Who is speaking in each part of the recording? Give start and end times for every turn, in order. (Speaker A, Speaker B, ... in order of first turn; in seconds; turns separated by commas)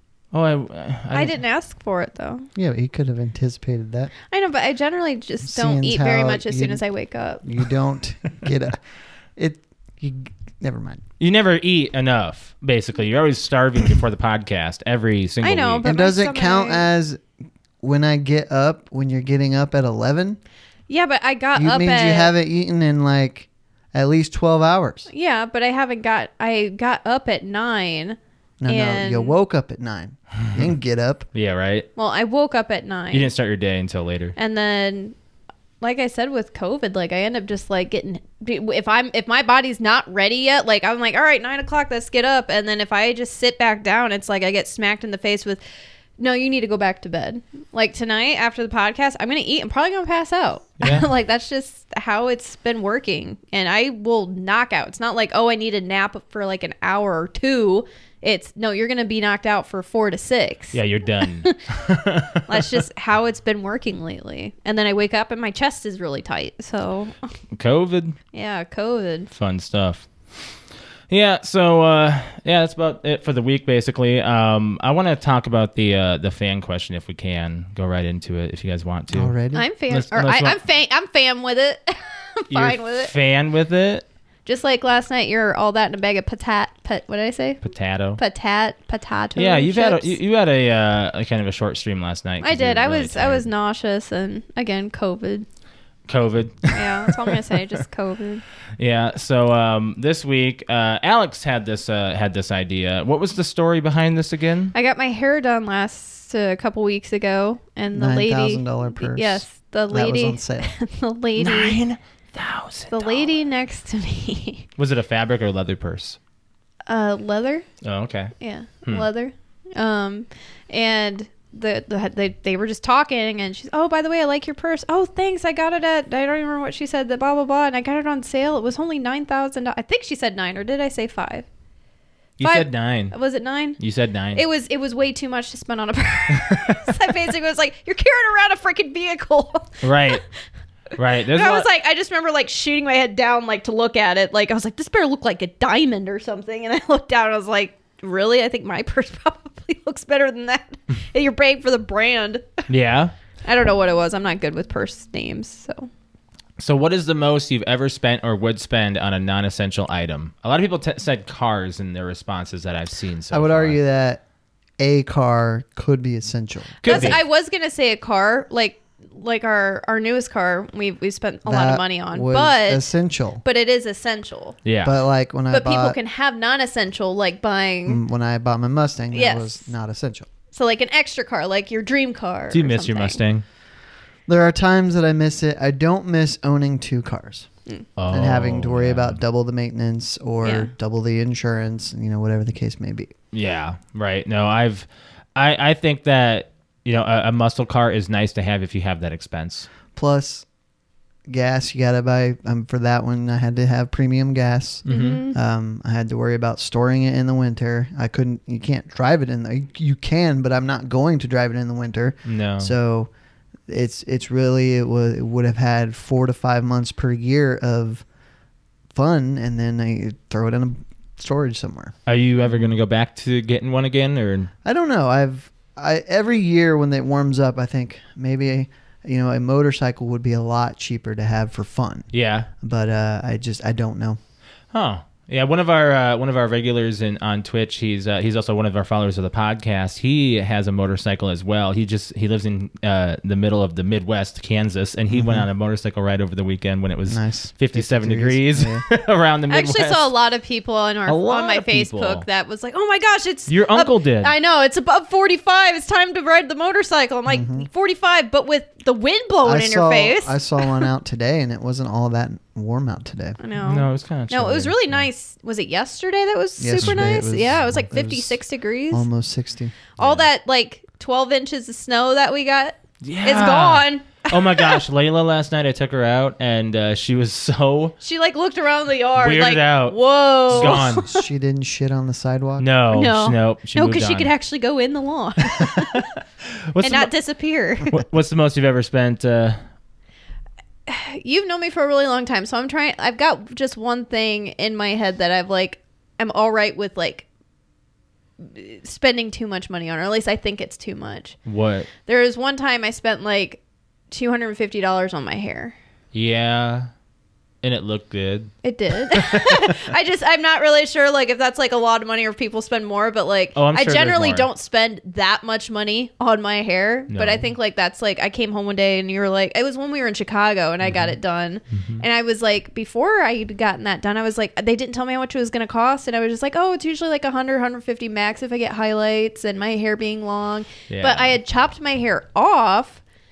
Speaker A: 0.3-1.4, Speaker B: 1.1-2.5, Speaker C: 2.6-4.1, Speaker B: 4.3-7.5, Speaker C: 5.5-6.8, Speaker C: 7.4-8.8, Speaker C: 9.4-11.0, Speaker A: 11.2-15.8, Speaker B: 15.4-16.8, Speaker C: 15.8-17.2, Speaker C: 17.8-20.4, Speaker B: 20.9-22.3, Speaker C: 21.6-25.1, Speaker B: 25.1-29.4, Speaker C: 28.6-31.3, Speaker A: 31.3-31.9, Speaker B: 32.0-33.3, Speaker A: 33.1-34.4, Speaker B: 34.4-35.2, Speaker B: 35.8-45.6, Speaker B: 46.2-67.3, Speaker A: 50.8-51.1, Speaker A: 60.7-62.7, Speaker A: 67.5-68.2, Speaker B: 68.3-69.3, Speaker A: 69.3-70.5, Speaker A: 71.1-79.3, Speaker C: 79.1-79.7, Speaker B: 79.5-83.1, Speaker A: 79.9-80.6, Speaker A: 82.5-84.0, Speaker B: 84.5-87.6, Speaker A: 87.6-88.2, Speaker B: 88.2-90.2, Speaker A: 89.4-93.5, Speaker B: 92.4-95.5, Speaker A: 96.1-97.3, Speaker B: 96.7-98.4, Speaker A: 98.8-104.7, Speaker B: 104.7-111.8, Speaker C: 107.9-110.7, Speaker A: 111.4-113.4, Speaker B: 112.9-114.7, Speaker A: 114.8-116.2, Speaker B: 116.9-117.7, Speaker A: 117.8-118.3, Speaker B: 118.4-131.5, Speaker A: 132.4-133.1, Speaker B: 132.4-133.8, Speaker A: 133.8-134.4, Speaker B: 134.3-140.2, Speaker A: 136.3-137.1, Speaker A: 139.8-140.2, Speaker A: 140.9-141.7, Speaker B: 141.3-152.7, Speaker A: 152.7-153.1, Speaker B: 153.4-155.9, Speaker A: 156.6-163.8, Speaker C: 163.3-164.2, Speaker C: 164.8-167.2, Speaker A: 166.8-167.2, Speaker B: 166.8-172.9, Speaker C: 171.5-173.4, Speaker B: 173.4-174.6, Speaker A: 174.7-174.9, Speaker C: 174.8-176.0, Speaker B: 175.5-178.0, Speaker C: 177.9-180.3, Speaker B: 179.1-179.7, Speaker B: 180.5-183.2, Speaker A: 182.5-183.4, Speaker C: 184.3-187.5, Speaker A: 188.0-189.2, Speaker C: 188.1-193.1, Speaker B: 190.4-190.7, Speaker A: 193.3-199.7, Speaker C: 199.9-200.4, Speaker C: 201.3-213.1, Speaker A: 204.8-205.2, Speaker B: 204.9-205.4, Speaker A: 212.3-212.7, Speaker C: 213.7-218.0, Speaker C: 218.9-221.9, Speaker A: 222.1-224.5, Speaker C: 224.7-232.1, Speaker A: 232.1-232.5, Speaker C: 232.6-234.2, Speaker A: 234.7-250.1, Speaker C: 245.1-245.5, Speaker C: 247.1-248.9, Speaker B: 249.5-260.9, Speaker A: 251.1-252.2, Speaker A: 253.5-254.3, Speaker C: 257.3-257.7, Speaker C: 259.4-263.4, Speaker B: 263.4-269.1, Speaker A: 263.6-265.1, Speaker C: 266.6-268.4, Speaker C: 268.9-269.9, Speaker A: 270.0-270.2, Speaker B: 270.0-274.8, Speaker A: 273.0-277.9, Speaker B: 278.0-281.2, Speaker A: 279.2-280.0, Speaker A: 280.5-281.1, Speaker C: 280.5-282.7, Speaker A: 282.6-284.3, Speaker B: 282.9-286.1, Speaker A: 285.5-287.1, Speaker B: 286.8-287.9, Speaker A: 287.9-289.6, Speaker B: 290.9-297.2, Speaker B: 298.4-301.4, Speaker A: 301.5-301.9, Speaker B: 302.0-303.6, Speaker B: 304.1-305.8, Speaker A: 306.1-306.9, Speaker A: 307.6-309.8, Speaker B: 308.6-333.0, Speaker A: 313.6-314.5, Speaker A: 317.1-317.5, Speaker A: 320.8-321.1, Speaker A: 321.7-322.1, Speaker A: 330.9-331.3